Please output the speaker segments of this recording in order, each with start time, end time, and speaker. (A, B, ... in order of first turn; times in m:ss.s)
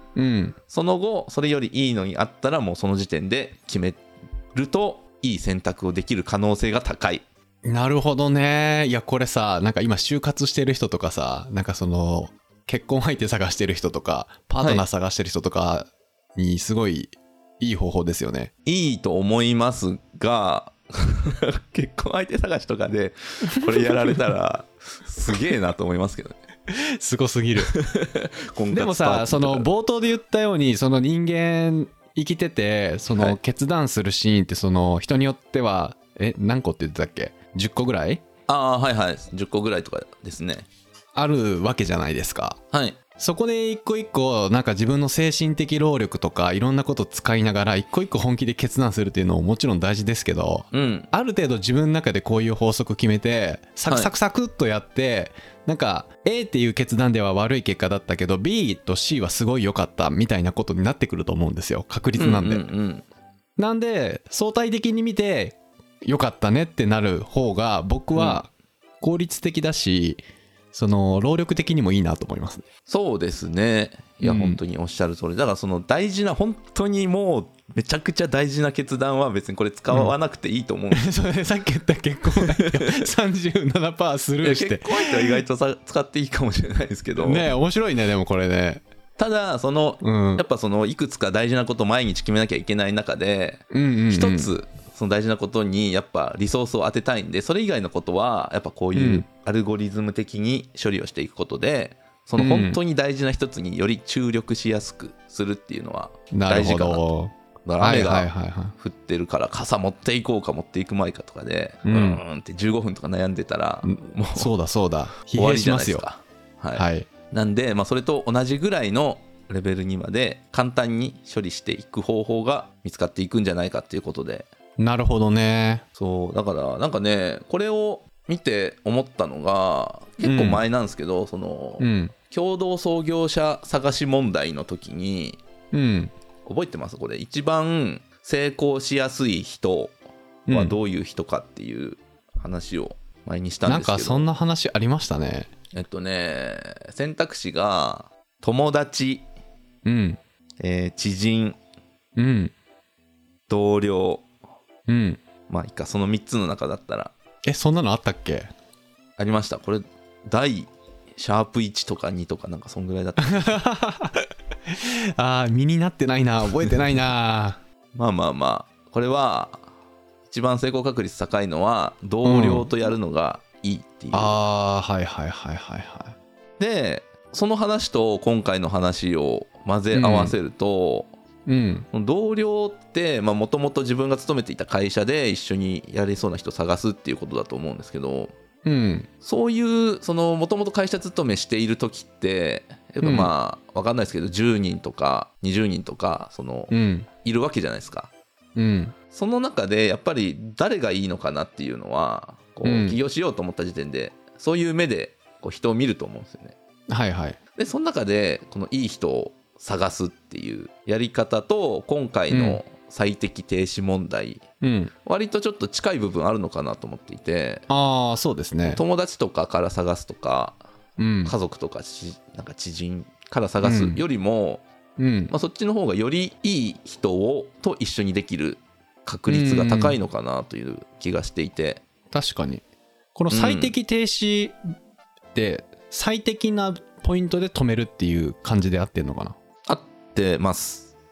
0:00.2-0:00.6 A
0:00.7-0:04.0 B
0:04.5-0:07.2 B
0:07.6-0:18.5 A
0:18.6-0:26.4 B
0:23.6-0:24.1 A
0:26.7-0:27.7 A
0:27.6-0:29.7 B
0:28.7-0:38.2 A
0:38.5-0:40.7 B
0:41.1-0:42.6 A
0:42.7-0:43.0 B
0:43.2-1:02.6 A
0:50.7-0:51.1 B
0:53.9-0:54.1 B
1:02.2-1:03.0 B
1:03.6-1:08.5 A
1:08.1-1:08.4 B
1:09.0-1:10.2 A
1:10.7-1:12.6 A
1:12.9-1:21.1 B
1:14.2-1:14.6 A
1:20.9-1:25.4 A
1:22.4-1:23.0 B
1:24.4-1:27.5 B
1:27.2-1:28.8 A
1:29.2-1:47.0 B
1:30.0-1:30.4 A
1:33.7-1:34.5 A
1:38.9-1:39.2 A
1:42.4-1:42.8 A
1:46.3-1:48.7 A
1:47.6-1:54.5 B
1:51.8-1:52.2 A
1:53.8-1:56.0 A
1:55.3-2:04.5 B
1:56.8-1:57.1 A
2:04.8-2:05.8 A
2:06.0-2:15.4 B
2:10.2-2:10.6 A
2:11.8-2:12.1 A
2:15.7-2:16.1 A
2:16.4-2:19.9 B
2:20.5-2:20.8 A
2:20.5-2:24.3 B
2:23.6-2:25.5 A
2:25.7-2:29.2 B
2:29.8-2:30.2 A
2:30.6-2:31.6 B
2:32.2-2:32.5 A
2:33.5-2:34.2 B
2:34.9-2:35.2 A
2:35.5-2:37.1 B
2:37.4-2:38.5 A
2:39.2-2:43.6 B
2:43.2-2:47.6 A
2:47.9-2:49.6 B
2:50.3-2:54.4 B
2:52.2-2:52.7 A
2:54.1-2:56.2 A
2:56.6-3:01.1 B
2:59.9-3:00.4 A
3:01.5-3:01.8 A
3:01.9-3:08.3 B
3:08.6-3:09.1 A
3:09.2-3:18.1 B
3:13.0-3:13.3 A
3:16.7-3:17.1 A
3:18.6-3:18.9 A
3:19.1-3:26.6 B
3:22.6-3:23.0 A
3:26.9-3:27.4 A
3:27.6-3:34.4 B
3:32.3-3:32.6 A
3:34.6-3:34.9 A
3:35.0-3:37.6 B
3:37.7-3:38.8 A
3:38.7-3:40.6 B
3:41.0-3:41.3 A
3:41.2-3:44.6 B
3:43.6-3:44.0 A
3:45.0-3:45.3 A
3:45.3-3:51.8 B
3:49.3-3:50.0 A
3:52.1-3:52.6 A
3:53.1-3:54.6 A
3:53.3-3:53.7 B
3:55.3-3:59.3 A
3:59.7-4:00.9 B